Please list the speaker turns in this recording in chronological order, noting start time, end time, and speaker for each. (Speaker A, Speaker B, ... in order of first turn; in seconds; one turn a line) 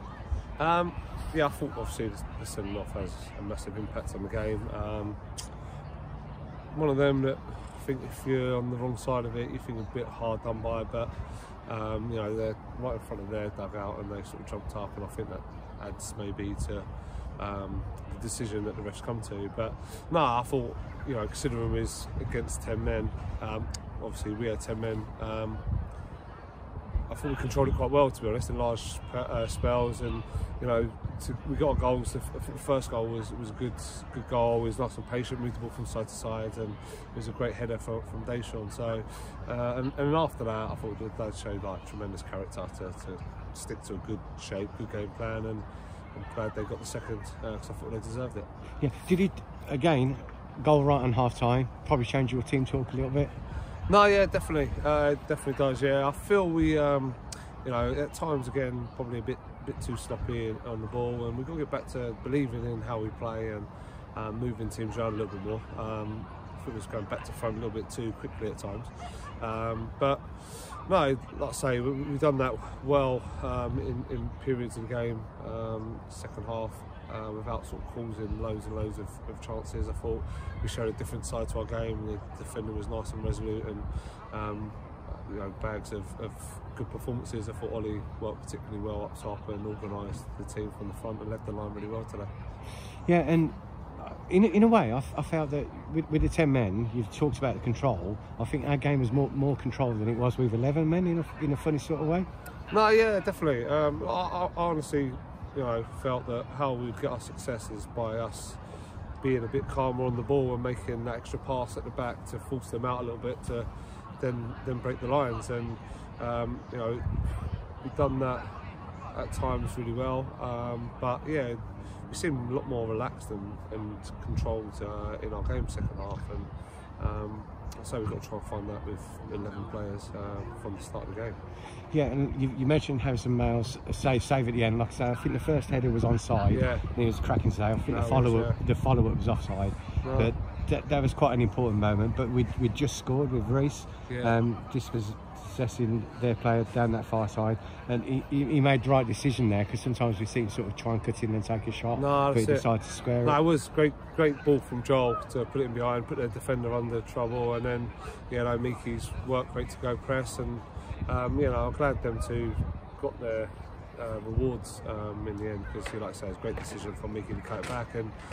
Speaker A: 0.6-5.2
Speaker A: 6.7-11.1
Speaker A: 11.7-16.9
Speaker A: 17.4-25.6
Speaker A: 27.1-48.5
Speaker B: 48.8-53.3
Speaker A: 53.9-92.3
Speaker B: 93.1-102.3
Speaker A: 102.7-108.6
Speaker A: 109.2-113.7
Speaker A: 114.2-118.5
Speaker A: 119.1-131.3
Speaker B: 131.9-153.4
Speaker A: 136.5-136.8
Speaker A: 137.9-138.6
Speaker A: 140.0-140.3
Speaker A: 144.1-144.3
Speaker A: 152.0-152.7
Speaker A: 153.2-168.1